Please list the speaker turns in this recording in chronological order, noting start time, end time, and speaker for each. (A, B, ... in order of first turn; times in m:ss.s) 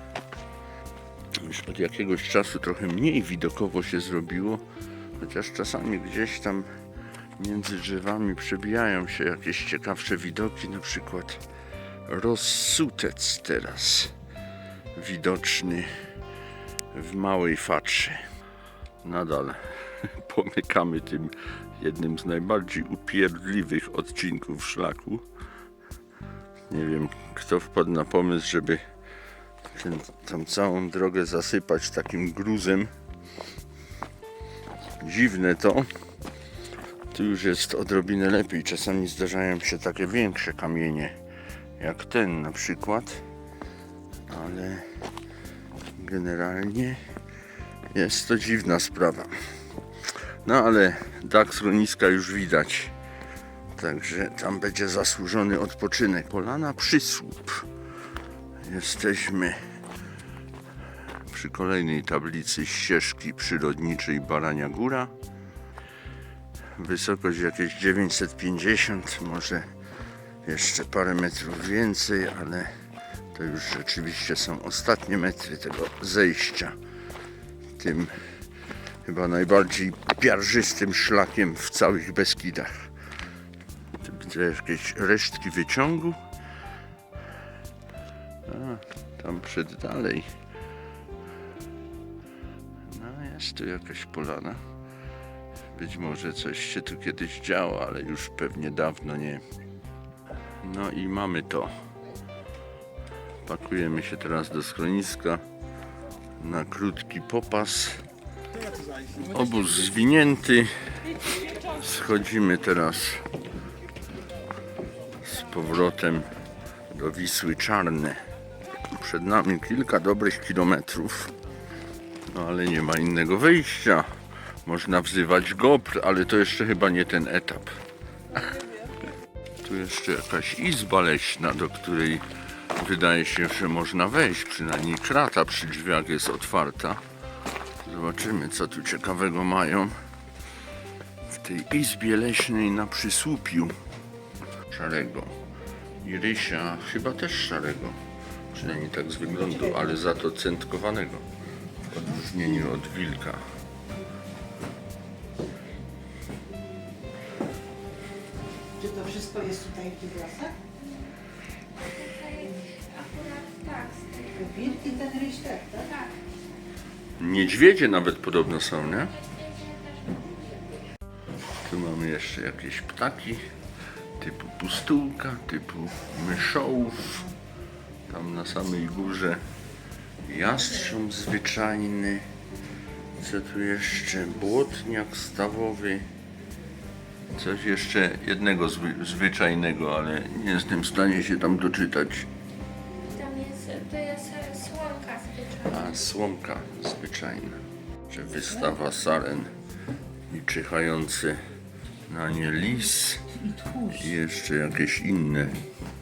0:01.4-0:04.6 A
0:05.2-0:06.7 A
0:07.4-0:11.4 A
0:12.1-0:14.2 A
0:15.0-0:15.9 A
0:16.9-0:18.2 A
0:19.0-0:25.2 A
0:26.7-0:28.8 A
0:29.7-0:32.9 A
0:35.0-0:35.9 A
0:37.1-0:41.1 A
0:41.8-0:43.2 A
0:44.3-0:44.9 A
0:46.0-0:47.0 A
0:47.9-0:49.4 A
0:50.4-0:52.9 A
0:53.7-0:57.7 A
0:58.6-0:59.6 A
1:01.3-1:05.1 A
1:06.8-1:09.7 A
1:10.4-1:12.7 A
1:13.3-1:16.8 A
1:17.8-1:18.2 A
1:19.0-1:22.9 A
1:24.0-1:26.2 A
1:28.4-1:30.3 A
1:32.8-1:34.6 A
1:35.7-1:39.4 A
1:40.6-1:41.7 A
1:43.4-1:45.4 A
1:46.4-1:48.1 A
1:49.1-1:50.7 A
1:51.3-1:53.3 A
1:55.2-1:56.3 A
1:56.9-1:58.2 A
1:58.8-2:01.4 A
2:02.3-2:04.1 A
2:04.6-2:07.8 A
2:09.6-2:17.0 A
2:17.8-2:20.0 A
2:21.3-2:23.8 A
2:24.7-2:25.4 A
2:26.0-2:28.0 A
2:28.5-2:31.3 A
2:31.8-2:33.4 A
2:38.8-2:40.6 B
2:41.9-2:44.4 C
2:44.3-2:46.0 B
2:47.2-2:49.4 A
2:49.4-2:50.4 C
2:51.6-2:53.4 A
2:54.2-2:57.3 A
2:58.1-2:59.4 A
3:00.2-3:02.3 A
3:03.2-3:06.1 A
3:07.3-3:12.3 A
3:13.0-3:15.6 C
3:15.6-3:19.5 A
3:20.3-3:21.4 A
3:22.1-3:25.6 A